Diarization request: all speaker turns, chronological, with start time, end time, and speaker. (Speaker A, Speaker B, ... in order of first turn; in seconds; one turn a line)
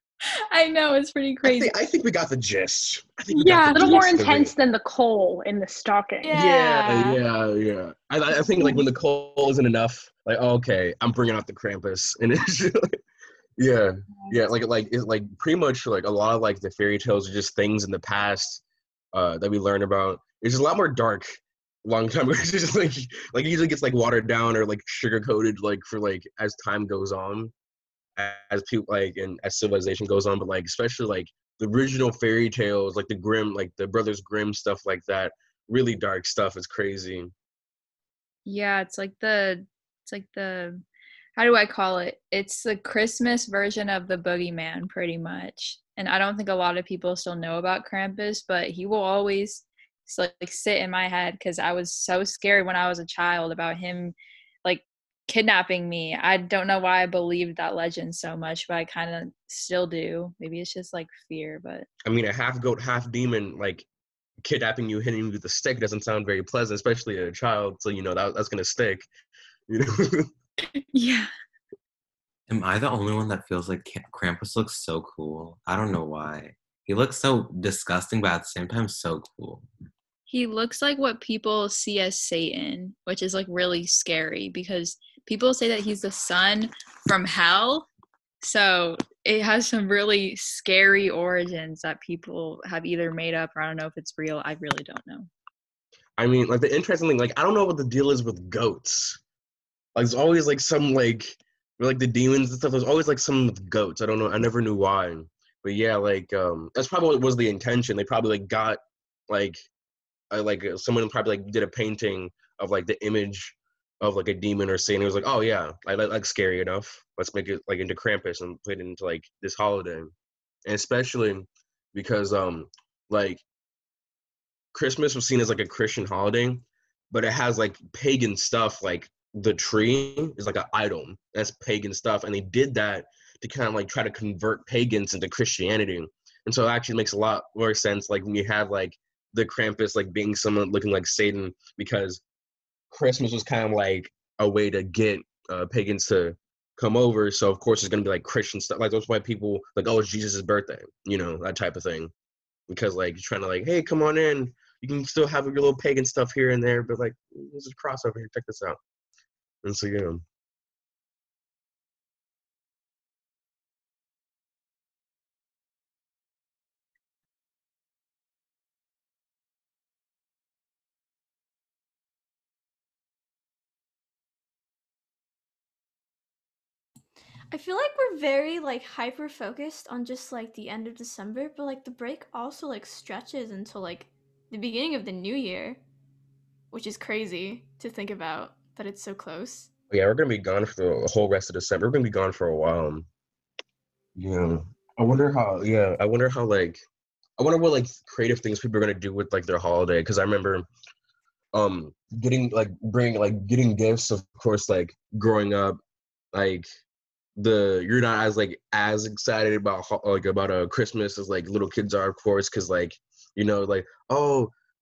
Speaker A: 0.5-1.7
Speaker B: 1.4-4.5
Speaker C: 3.3-6.4
Speaker D: 6.2-7.2
Speaker B: 6.3-12.9
Speaker B: 13.6-27.5
Speaker B: 28.2-37.3
Speaker A: 38.5-40.8
Speaker A: 41.4-61.9
Speaker B: 62.1-63.9
Speaker B: 64.4-69.1
Speaker B: 69.7-70.3
Speaker A: 70.9-71.3
Speaker E: 72.5-79.7
Speaker A: 80.3-87.9
Speaker A: 88.4-95.3
Speaker B: 96.2-99.2
Speaker B: 100.0-109.7
Speaker B: 110.3-120.1
Speaker B: 120.7-123.4
Speaker B: 124.7-142.2
Speaker B: 142.9-152.1
Speaker B: 152.7-158.8
Speaker B: 159.6-160.2
Speaker D: 177.5-185.8
Speaker D: 186.7-189.7
Speaker B: 189.9-193.1
Speaker B: 194.2-196.8
Speaker B: 197.4-200.7
Speaker B: 201.5-205.8
Speaker B: 206.3-206.7
Speaker B: 207.4-214.5